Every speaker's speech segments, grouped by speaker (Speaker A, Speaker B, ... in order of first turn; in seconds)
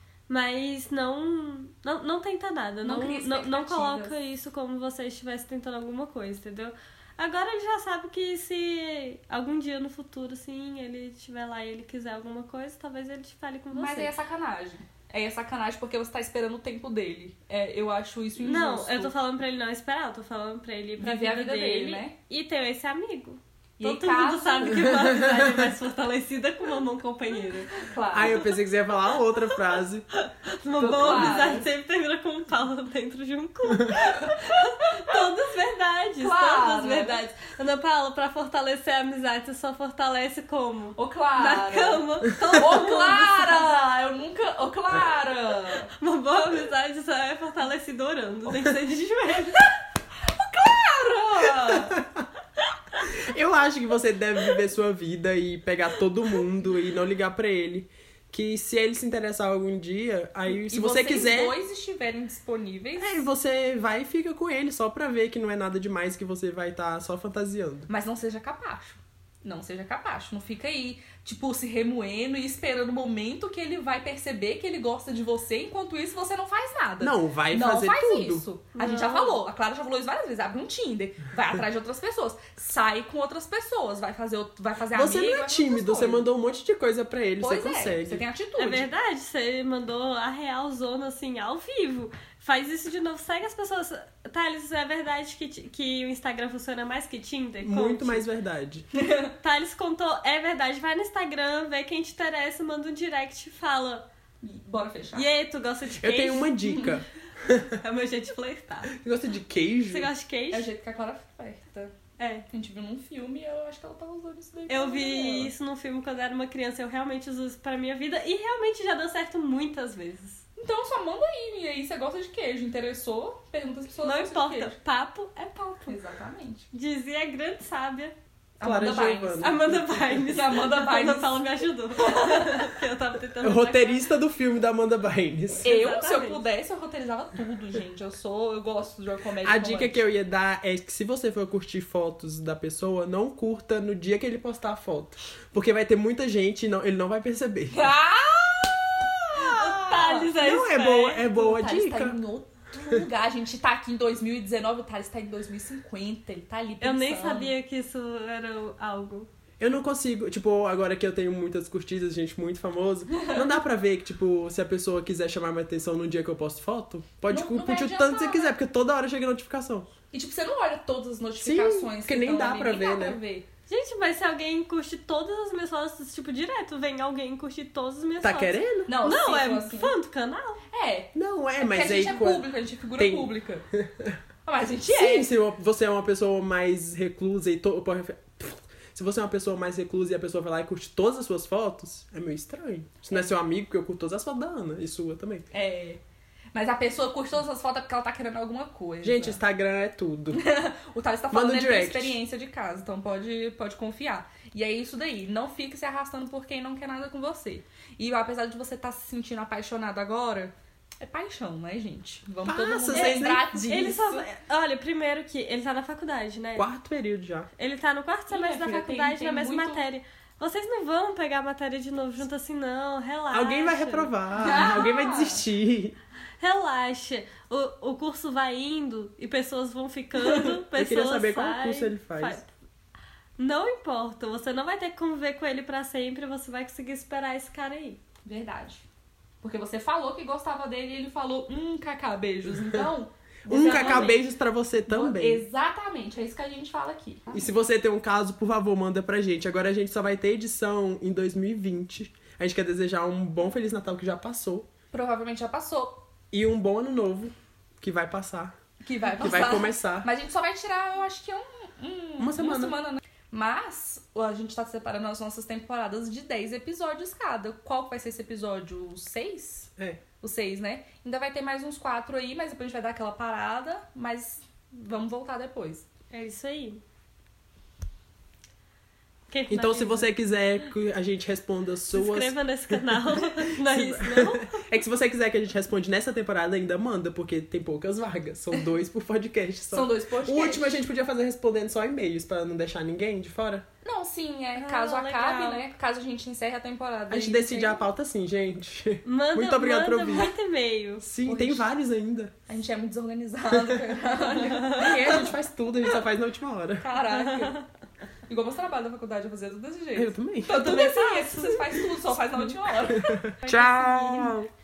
Speaker A: 0.3-14.1, 18.4-27.8, 30.2-43.8, 45.9-49.6, 78.8-79.4, 88.6-98.2, 99.4-104.0, 105.1-106.9, 107.6-109.0, 109.8-110.7, 112.2-112.5, 114.7-120.4, 124.0-125.3, 126.7-128.1, 129.3-134.1, 135.6-136.4, 149.4-151.2, 156.8-159.3, 173.7-180.6, 212.9-216.7, 217.6-224.1, 226.4-232.5, 233.4-238.0, 243.5-244.2, 276.1-276.8, 279.3-280.1, 281.9-284.6, 294.6-295.6, 299.0-301.1, 307.1-307.6, 310.5-311.6, 313.4-314.4
Speaker B: 2.8-4.1, 13.7-19.1, 21.0-22.1, 23.8-25.1, 27.7-28.4, 30.8-31.6, 34.0-34.6, 36.2-37.2, 41.0-45.9, 50.2-52.0, 60.5-63.1, 67.9-86.2, 87.4-88.9, 98.9-99.3, 104.4-105.2, 110.5-112.0, 112.5-115.5, 120.6-124.8, 125.3-126.7, 128.6-129.5, 130.3-132.7, 135.6-140.0, 147.7-150.4, 151.2-157.5, 167.3-168.5, 170.1-173.4, 178.9-179.9, 180.7-183.7, 184.4-185.3, 195.5-196.0, 196.5-199.4, 200.3-214.3, 218.3-219.8, 224.4-225.4, 238.2-238.8, 239.4-244.2, 244.9-247.5, 254.9-256.0, 258.8-275.9, 289.7-290.8, 293.8-297.9, 301.2-301.6, 302.5-305.3, 306.8-307.6, 308.3-313.1
Speaker C: 25.0-25.7, 28.1-30.1, 51.9-52.3, 53.1-61.6, 63.0-67.9, 77.0-78.4, 84.9-88.2, 97.6-98.8, 106.0-107.8, 108.9-110.1, 128.6-130.2, 133.4-135.8, 139.4-147.9, 150.3-152.2, 159.6-169.9, 171.4-173.2, 178.2-178.9, 181.1-184.2, 184.9-195.5, 199.0-200.4, 201.3-202.2, 212.4-213.9, 216.6-217.5, 223.3-226.0, 230.7-232.4, 243.4-245.4, 247.3-254.7, 256.3-258.5, 259.1-260.1, 262.2-262.8, 279.5-293.7, 297.1-300.3, 301.0-302.3, 303.5-303.9, 304.6-306.9, 309.9-310.9, 312.8-314.5